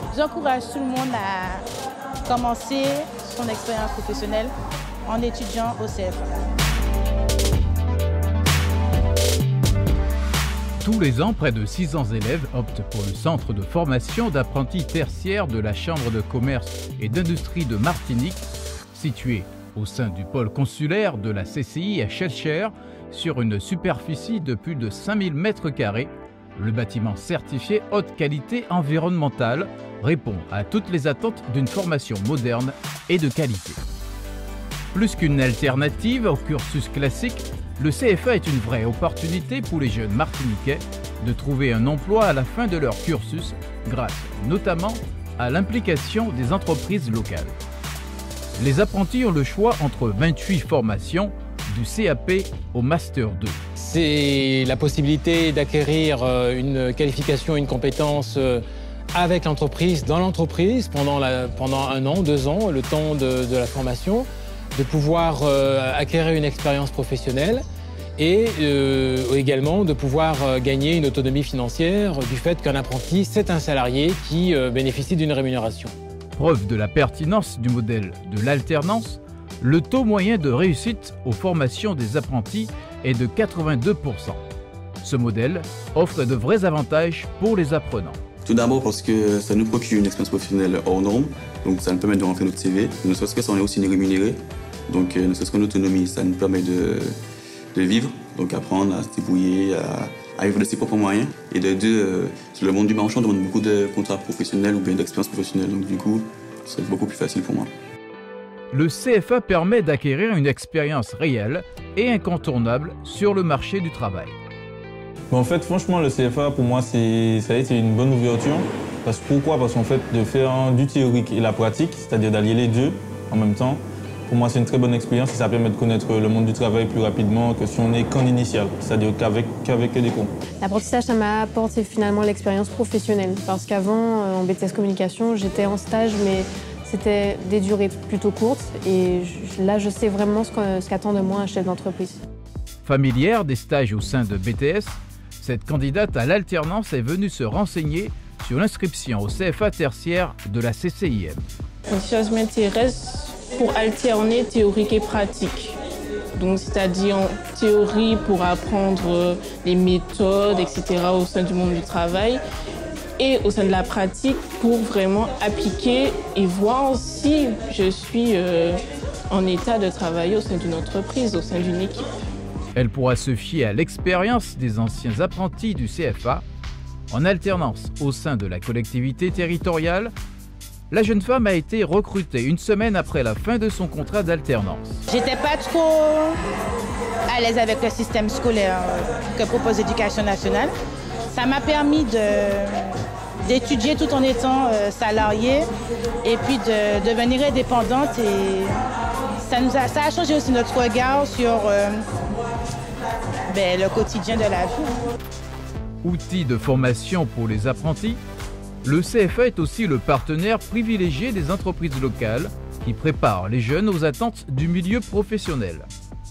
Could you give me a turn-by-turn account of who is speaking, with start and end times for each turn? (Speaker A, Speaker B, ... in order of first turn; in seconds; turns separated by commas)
Speaker A: 0.2-0.9, Speaker A: 2.3-2.8, Speaker A: 3.3-3.8, Speaker A: 5.1-6.1, Speaker B: 10.8-33.8, Speaker B: 34.9-47.6, Speaker B: 48.6-53.6, Speaker C: 53.8-64.2, Speaker C: 64.8-67.6, Speaker C: 68.2-75.9, Speaker B: 76.4-84.4, Speaker B: 85.0-88.2, Speaker D: 88.4-94.4, Speaker D: 94.9-97.1, Speaker D: 97.8-107.7, Speaker B: 108.7-114.4, Speaker E: 115.3-130.3, Speaker F: 130.6-142.2, Speaker B: 142.8-151.4, Speaker G: 151.9-155.8, Speaker G: 156.3-162.4, Speaker G: 163.2-168.8, Speaker G: 169.3-172.1, Speaker B: 172.8-176.4, Speaker B: 177.1-180.1, Speaker B: 180.9-185.0, Speaker A: 185.1-186.3, Speaker A: 187.3-188.9, Speaker A: 189.4-190.7, Speaker A: 191.4-192.7, Speaker A: 193.5-195.6, Speaker A: 196.3-198.7, Speaker A: 199.5-201.8, Speaker A: 203.6-204.9, Speaker B: 206.0-208.2, Speaker B: 208.8-215.9